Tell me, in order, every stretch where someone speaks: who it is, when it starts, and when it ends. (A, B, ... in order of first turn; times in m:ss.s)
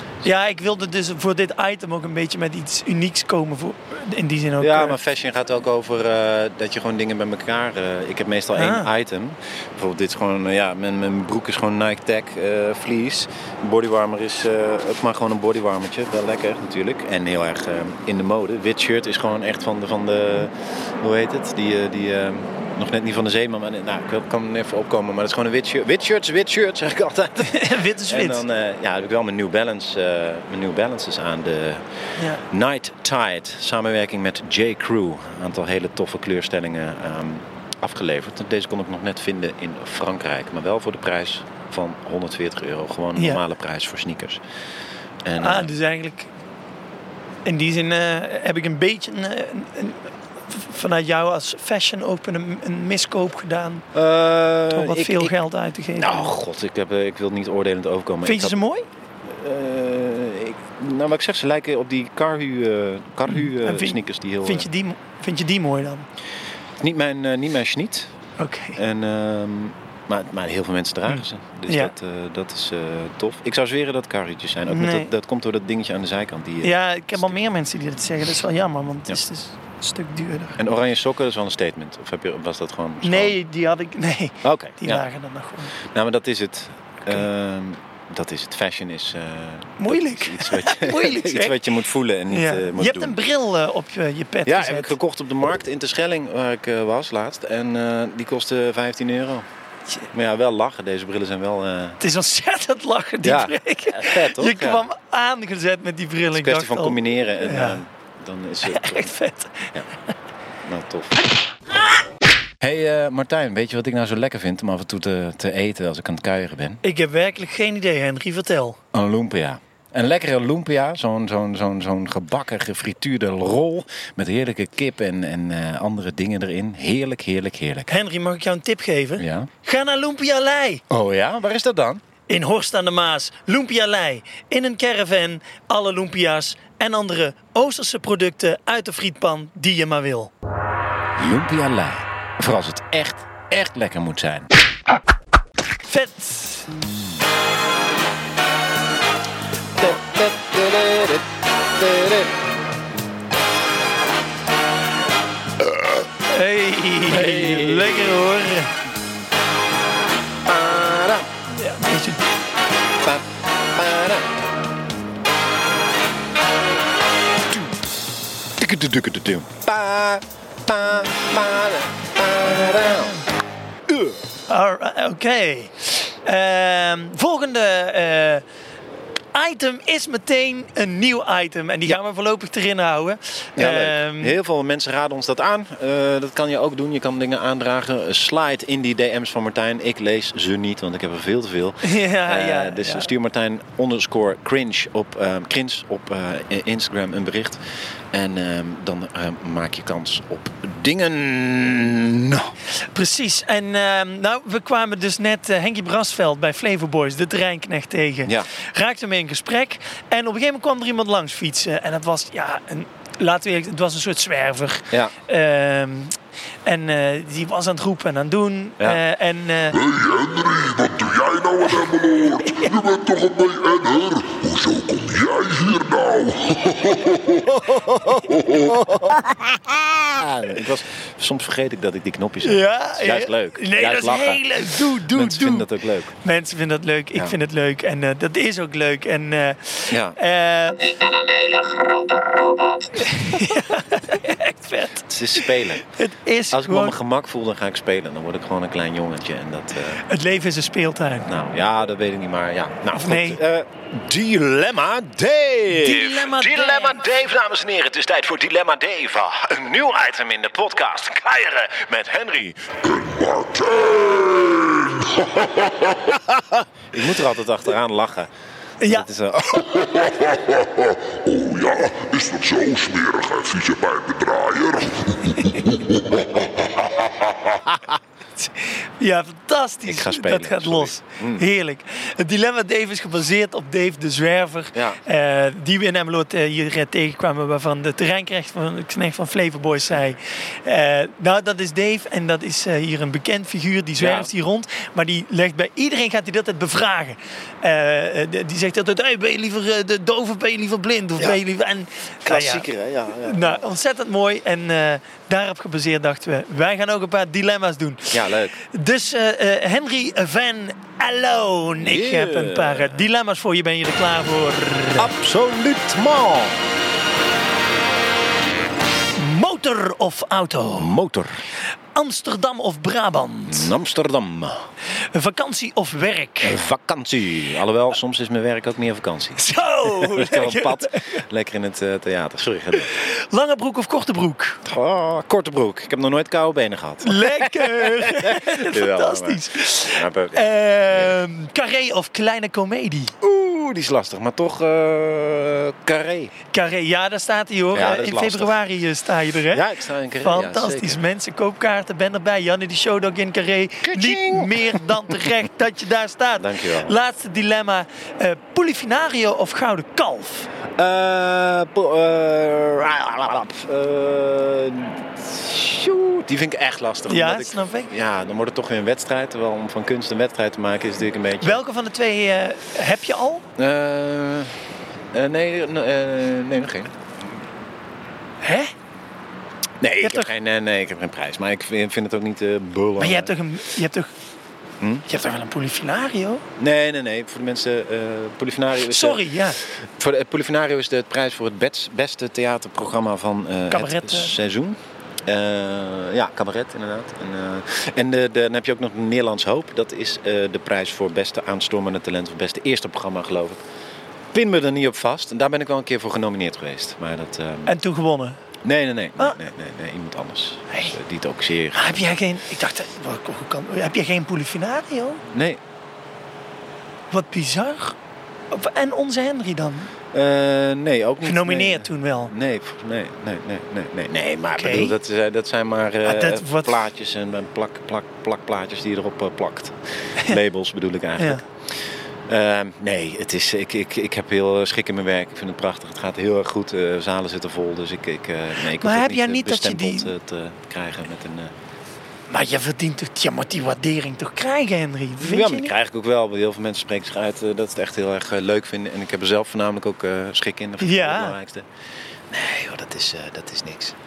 0:00.2-0:05.0 A
0:04.6-0:44.4 B
0:08.6-0:08.9 A
0:27.4-0:28.4 A
0:32.2-0:32.4 A
0:43.2-0:43.4 A
0:45.2-0:45.7 B
0:45.4-0:46.3 A
0:47.4-0:53.9 A
0:53.9-0:55.4 B
0:54.7-0:56.3 A
0:56.0-0:58.6 B
0:58.2-0:58.9 A
0:59.2-1:04.7 B
1:03.3-1:06.1 A
1:06.8-1:08.1 B
1:08.4-1:08.8 A
1:08.8-1:17.4 B
1:11.7-1:11.9 A
1:14.7-1:15.1 A
1:16.6-1:20.6 A
1:20.6-1:23.4 B
1:23.0-1:25.7 A
1:24.4-1:25.1 B
1:25.8-1:33.2 B
1:29.8-1:31.6 A
1:32.3-1:34.9 A
1:34.4-1:39.5 B
1:40.1-1:42.0 B
1:42.0-1:47.8 A
1:43.2-1:44.9 B
1:46.3-1:49.1 B
1:48.6-1:49.7 A
1:50.6-1:51.2 B
1:52.6-1:56.8 B
1:56.8-1:58.8 A
1:58.9-2:07.9 B
2:07.9-2:10.8 A
2:09.2-2:09.5 B
2:10.9-2:12.0 B
2:12.3-2:20.3 A
2:21.2-2:24.5 B
2:25.8-2:26.7 A
2:29.8-2:32.3 B
2:35.6-2:36.1 B
2:36.3-2:38.7 A
2:37.1-2:38.1 B
2:40.4-2:41.3 B
2:41.6-2:42.4 A
2:43.0-2:44.4 B
2:48.6-2:53.2 B
2:53.9-2:54.2 B
2:54.5-2:58.4 A
2:59.3-3:04.4 A
3:03.6-3:22.6 B
3:11.8-3:13.1 A
3:22.9-3:39.8 A
3:39.8-3:47.2 C
3:42.4-3:42.8 A
3:47.2-3:56.1 B
3:52.4-3:55.7 A
3:56.2-4:00.9 A
3:59.9-4:00.2 B
4:03.0-4:07.0 A
4:05.1-4:05.9 B
4:06.5-4:10.0 B
4:10.1-4:11.3 A
4:11.2-4:22.9 B
4:12.9-4:13.4 A
4:15.7-4:17.0 A
4:22.9-4:25.8 C
4:26.3-4:28.3 B
4:28.8-4:29.1 A
4:28.8-4:30.1 B
4:30.0-4:37.4 C
4:37.6-4:38.0 B
4:38.4-5:02.7 A
4:39.9-4:41.4 B
4:44.7-4:45.0 B
4:54.0-4:54.3 B
5:02.3-5:03.6 B
5:03.2-5:15.1 A
5:08.1-5:08.6 B
5:11.8-5:13.1 B
5:15.0-5:16.6 B
5:19.2-5:20.9 A
5:20.7-5:21.4 B
5:22.0-5:23.7 A
5:23.5-5:24.7 B
5:25.1-5:26.6 A
5:26.4-5:32.9 B
5:29.4-5:31.2 A
5:32.9-5:34.6 A
5:34.6-5:41.2 B
5:37.0-5:43.1 A
5:43.2-5:46.3 B
5:46.5-5:49.6 A
5:47.7-5:48.6 B
5:49.5-5:51.0 B
5:50.2-6:00.5 A
5:53.8-5:55.3 B
5:56.4-5:56.9 B
6:00.8-6:11.6 B
6:07.1-6:07.9 A
6:11.4-6:13.4 A
6:13.6-6:14.6 B
6:15.1-6:17.3 B
6:18.4-6:18.7 A
6:19.8-6:23.3 B
6:20.0-6:20.3 A
6:23.0-6:24.1 A
6:24.8-6:25.1 B
6:25.1-6:26.4 A
6:26.6-6:43.6 B
6:28.8-6:29.6 A
6:33.7-6:34.3 A
6:44.3-6:47.8 B
6:47.7-6:48.4 A
6:48.6-6:52.0 B
6:51.7-6:55.2 A
6:55.3-6:55.6 B
6:57.1-6:58.0 A
6:58.5-6:59.9 A
7:00.1-7:21.5 B
7:01.2-7:02.3 A
7:04.6-7:05.0 A
7:06.0-7:06.8 A
7:11.2-7:11.4 A
7:18.8-7:20.1 A
7:22.3-7:25.7 A
7:25.2-7:31.7 B
7:30.8-7:31.4 A
7:32.3-7:34.0 B